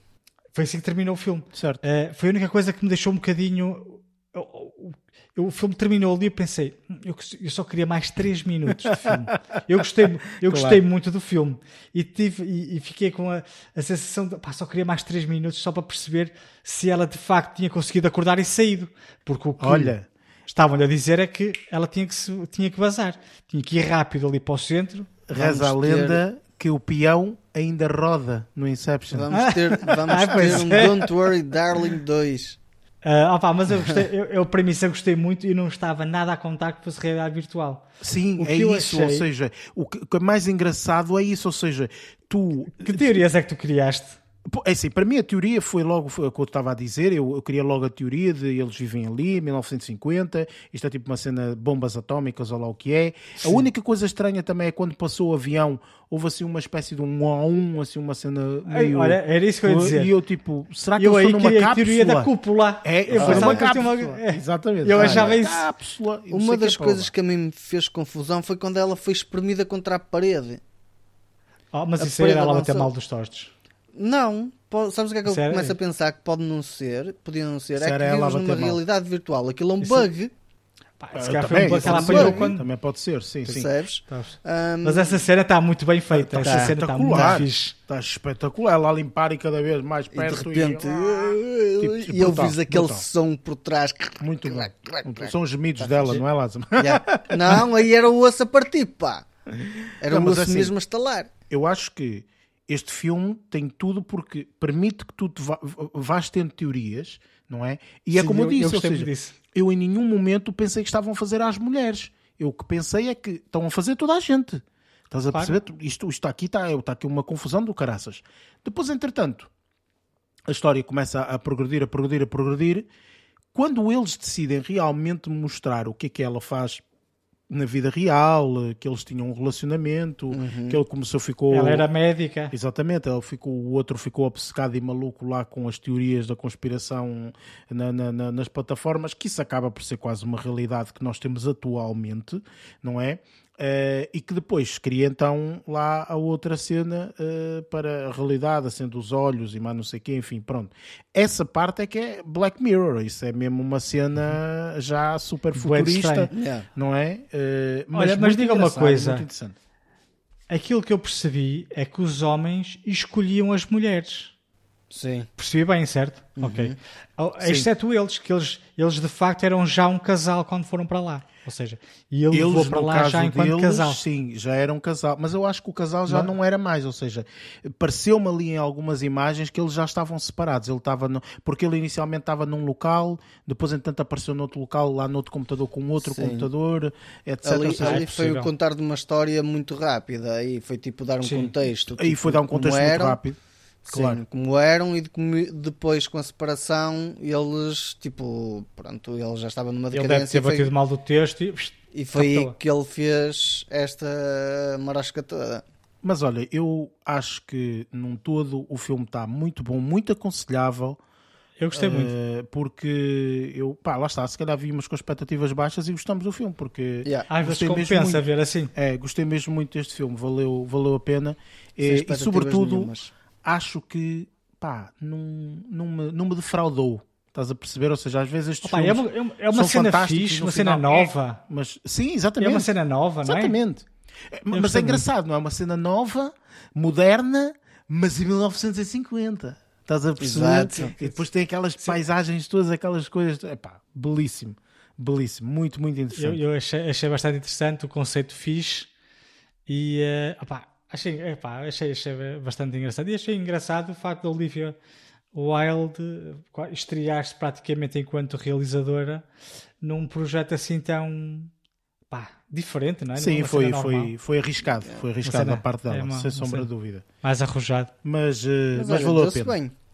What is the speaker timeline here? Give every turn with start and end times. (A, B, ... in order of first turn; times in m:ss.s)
0:00.5-0:19.9 A
0:01.5-0:01.8 B
0:10.4-0:10.8 B
0:19.6-0:20.0 B
0:20.5-0:25.1 A
0:25.3-0:29.3 B
0:25.3-0:26.2 C
0:29.1-0:32.6 C
0:29.3-0:31.1 A
0:30.1-0:30.9 B
0:33.0-0:39.3 A
0:38.0-0:43.2 B
0:42.7-0:44.2 A
0:44.4-1:07.1 B
0:53.4-0:53.7 A
0:58.7-1:00.1 A
1:01.0-1:05.7 A
1:03.2-1:03.7 C
1:05.0-1:05.4 C
1:06.3-1:10.6 C
1:11.7-1:13.5 A
1:12.0-1:12.9 C
1:13.9-1:20.3 C
1:15.2-1:15.8 A
1:17.7-1:18.8 B
1:19.8-1:20.1 A
1:21.0-1:22.6 A
1:21.1-1:23.7 B
1:21.6-1:22.5 C
1:23.4-1:25.3 C
1:24.1-1:27.7 A
1:26.1-1:33.0 B
1:26.4-1:27.4 C
1:30.1-1:36.2 C
1:34.2-1:37.6 B
1:36.8-1:39.2 C
1:39.6-1:40.7 B
1:40.0-1:41.3 C
1:41.5-1:59.5 B
1:48.1-1:49.3 A
1:55.3-1:55.6 A
2:00.5-2:02.9 B
2:03.5-2:06.8 B
2:07.5-2:11.9 B
2:10.3-2:10.8 C
2:11.5-2:12.5 A
2:12.5-2:39.5 B
2:35.5-2:36.3 A
2:36.3-2:36.7 C
2:37.9-2:39.2 A
2:40.5-2:44.3 A
2:44.9-2:45.3 C
2:45.4-2:54.0 A
2:46.4-2:46.8 C
2:47.4-2:47.7 B
2:52.3-3:08.1 B
3:06.0-3:06.5 C
3:07.4-3:13.2 C
3:07.8-3:08.5 A
3:11.2-3:11.5 A
3:12.0-3:13.4 B
3:13.8-3:20.7 C
3:13.9-3:14.2 B
3:19.9-3:22.5 A
3:21.9-3:25.6 C
3:26.0-3:31.0 B
3:31.6-3:32.1 A
3:31.7-3:52.7 B
3:37.3-3:38.7 A
3:41.8-3:43.1 C
3:48.6-3:51.4 A
3:52.4-3:53.6 A
3:53.2-4:06.4 B
3:54.5-3:55.0 A
4:00.2-4:00.9 C
4:06.1-4:08.9 A
4:09.7-4:14.8 A
4:15.3-4:19.2 A
4:19.8-4:21.5 A
4:22.1-4:24.1 A
4:23.1-4:27.0 B
4:25.2-4:26.7 A
4:27.2-4:27.9 A
4:28.0-4:29.5 B
4:28.7-4:29.7 C